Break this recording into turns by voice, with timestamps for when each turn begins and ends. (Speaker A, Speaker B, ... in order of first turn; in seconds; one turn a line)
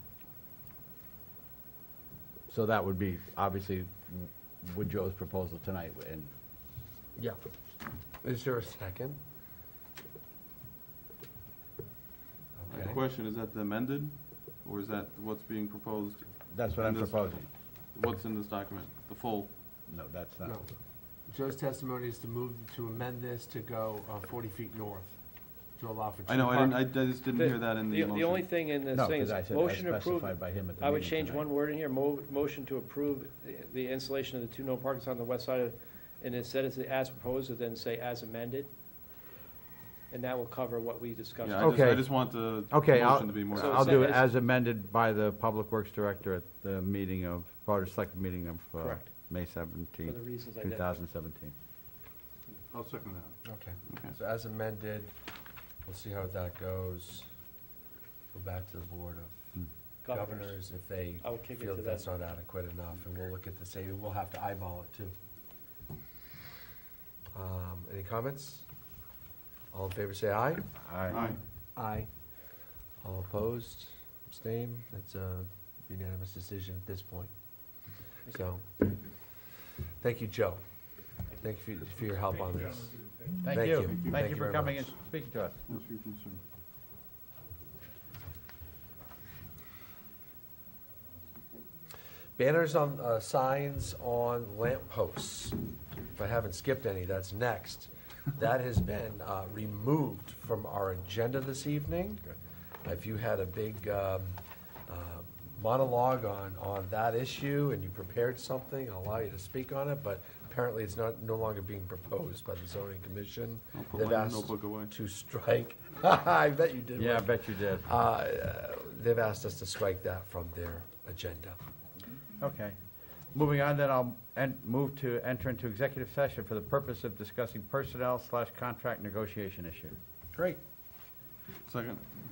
Speaker A: 2.5-6.3
Speaker B: 8.2-9.2
Speaker B: 12.6-13.0
Speaker C: 12.7-17.4
Speaker A: 16.5-17.5
Speaker C: 17.9-19.5
Speaker A: 19.9-20.6
Speaker B: 21.3-25.2
Speaker B: 25.8-26.8
Speaker C: 26.3-28.5
Speaker D: 27.3-38.7
Speaker A: 28.9-31.5
Speaker D: 40.1-41.9
Speaker C: 41.4-44.1
Speaker A: 41.6-51.5
Speaker D: 43.5-44.2
Speaker D: 48.8-49.1
Speaker D: 50.0-51.0
Speaker C: 52.7-53.3
Speaker B: 53.5-55.1
Speaker B: 55.9-57.3
Speaker B: 58.3-59.4
Speaker D: 60.0-60.6
Speaker B: 60.1-65.1
Speaker D: 61.2-62.1
Speaker B: 67.3-68.7
Speaker B: 69.7-70.6
Speaker A: 70.8-71.2
Speaker C: 71.1-71.4
Speaker B: 71.8-72.1
Speaker B: 73.0-77.3
Speaker B: 78.3-78.8
Speaker B: 80.0-80.6
Speaker B: 81.3-84.9
Speaker A: 83.4-85.6
Speaker C: 83.8-84.2
Speaker C: 85.7-86.4
Speaker B: 92.4-95.6
Speaker B: 96.2-121.6
Speaker C: 113.8-114.9
Speaker A: 117.0-117.9
Speaker A: 122.4-122.8
Speaker A: 123.3-130.0
Speaker B: 130.3-130.6
Speaker C: 131.7-132.0